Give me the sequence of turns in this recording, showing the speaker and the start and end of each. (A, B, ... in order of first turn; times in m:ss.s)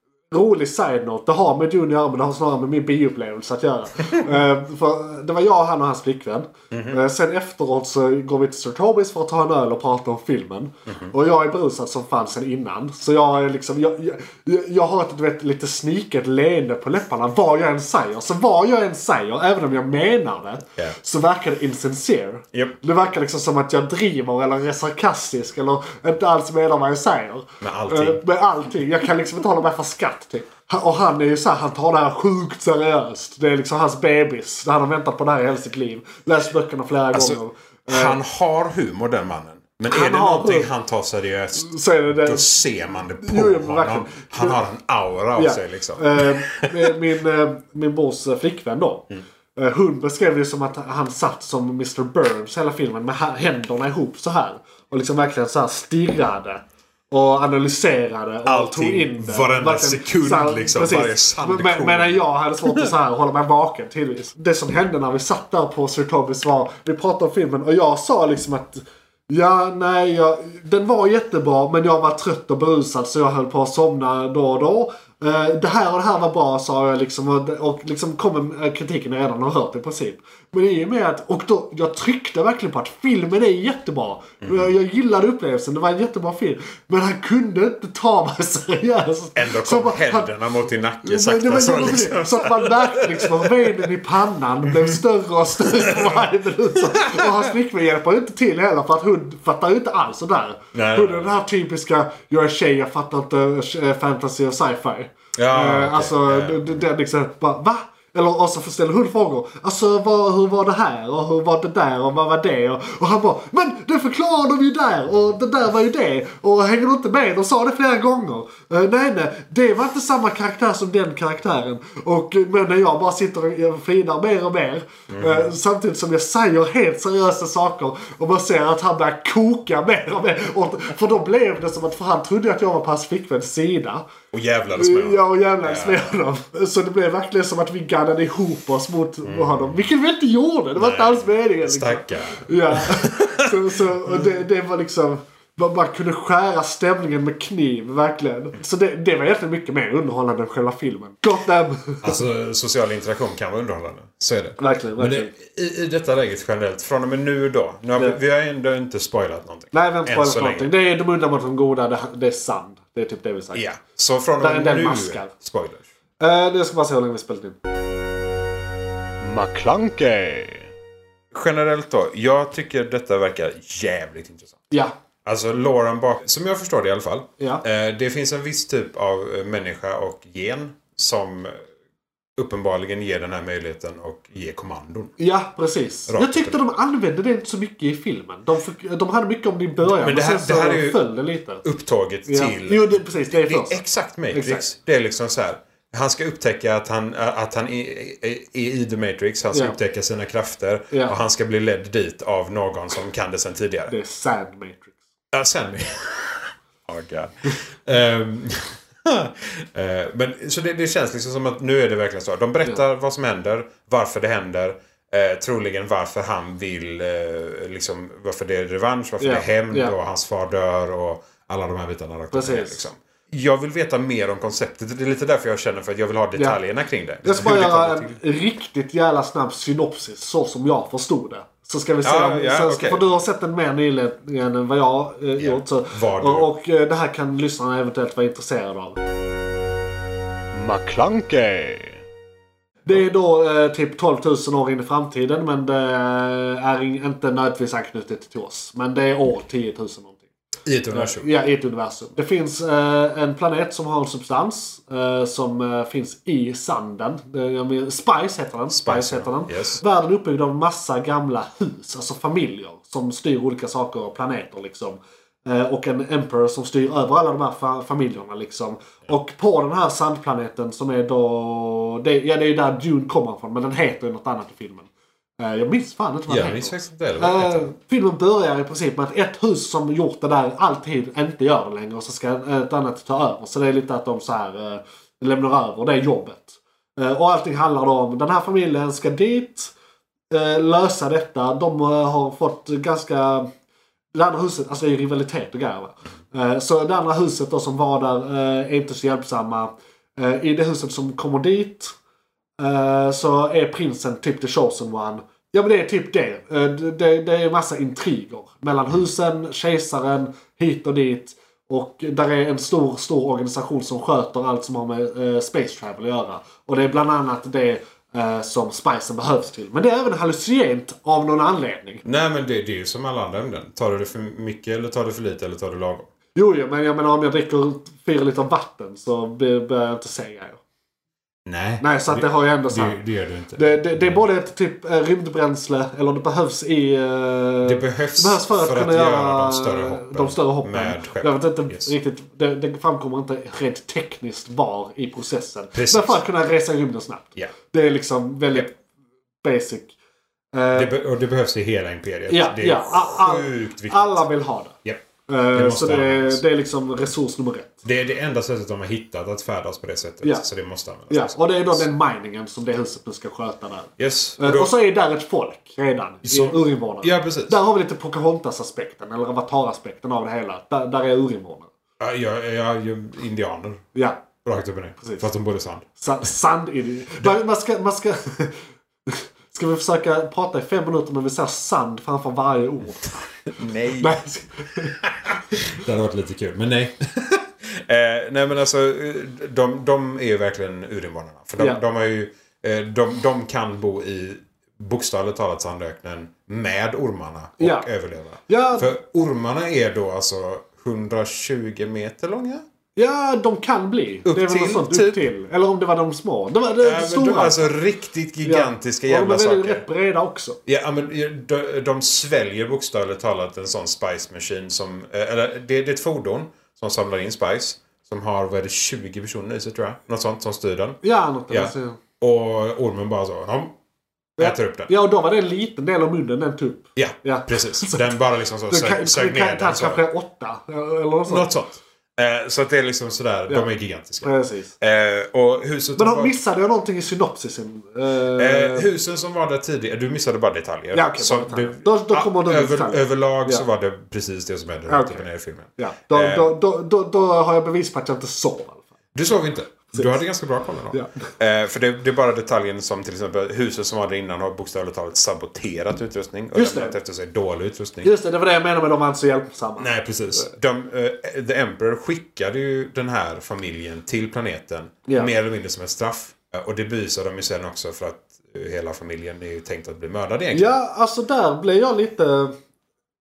0:00.3-0:38.1 A
0:06.7-0:07.0 B
0:10.9-0:11.1 B
0:27.6-0:28.2 B
0:37.1-0:46.9 B
0:39.9-0:40.7 A
0:41.5-0:42.5 A
0:43.2-0:44.6 A
0:45.4-1:30.3 A
0:58.4-1:02.9 B
1:24.4-1:24.7 B
1:29.4-1:33.8 B
1:31.0-2:14.0 A
1:35.8-1:36.2 B
1:36.8-1:37.4 B
1:40.7-1:41.3 B
1:45.4-1:46.8 B
2:05.1-2:05.5 B
2:14.3-2:16.1 B
2:14.7-2:32.2 A
2:19.2-2:19.7 B
2:20.8-2:24.2 B
2:32.0-2:40.7 B
2:34.6-2:35.3 A
2:39.7-2:43.6 A
2:43.5-2:45.9 B
2:44.4-2:45.3 A
2:46.2-2:47.6 A
2:49.2-2:50.7 C
2:51.3-2:54.6 B
2:55.2-3:01.6 B
2:57.4-2:57.6 A
3:02.4-3:05.1 B
3:05.2-3:11.6 A
3:06.1-3:06.6 B
3:09.8-3:11.0 B
3:11.6-3:23.9 B
3:12.3-3:14.6 A
3:20.9-3:21.2 A
3:23.9-3:25.0 A
3:25.3-3:48.2 B
3:39.2-3:39.9 A
3:42.3-3:42.8 A
3:47.2-3:59.0 A
3:52.0-3:53.1 B
3:55.4-3:56.5 B
4:00.5-4:02.0 C
4:02.8-4:10.2 A
4:10.6-4:11.3 B
4:10.9-4:49.7 A
4:18.7-4:19.8 B
4:36.3-4:37.7 B
4:50.3-4:53.5 A
4:54.1-5:01.9 A
5:02.6-5:22.0 A
5:22.0-5:26.1 B
5:26.3-5:30.6 A
5:31.4-5:34.2 B
5:31.8-5:33.0 A
5:33.5-5:48.8 A
5:37.6-5:41.9 B
5:45.7-5:46.2 B
5:49.4-5:49.9 A
5:50.5-5:50.9 A
5:50.7-5:54.2 B
5:52.3-5:54.7 A
5:54.8-5:56.4 B
5:55.3-5:57.8 A
5:57.8-6:01.9 B
6:01.1-6:11.7 A
6:04.0-6:04.7 B
6:06.2-6:07.6 B
6:12.0-6:13.8 B
6:13.9-6:14.2 A
6:14.4-6:16.0 B
6:15.0-6:15.2 A
6:16.0-6:23.3 A
6:23.5-6:24.2 B
6:23.9-6:25.0 A
6:25.0-6:42.6 B
6:37.6-6:37.9 A
6:38.5-6:38.9 A
6:43.0-6:47.7 A
6:44.2-6:45.2 B
6:46.8-6:49.8 B
6:48.4-6:50.6 A
6:50.6-7:03.7 B
7:01.0-7:02.0 A
7:04.4-7:08.1 A
7:04.4-7:04.9 B
7:07.0-7:10.0 B
7:08.7-7:11.5 A
7:11.3-7:14.3 B
7:14.2-7:14.7 A
7:14.8-7:16.4 B
7:16.0-7:18.9 A
7:18.4-7:26.5 B
7:20.9-7:23.6 A
7:24.9-7:25.2 A
7:25.8-7:28.8 A
7:29.1-7:38.1 B
7:29.9-7:30.2 A
7:30.9-7:31.2 A
7:36.5-7:37.0 A
7:38.0-7:40.5 A
7:39.8-7:50.8 B
7:50.5-7:52.6 A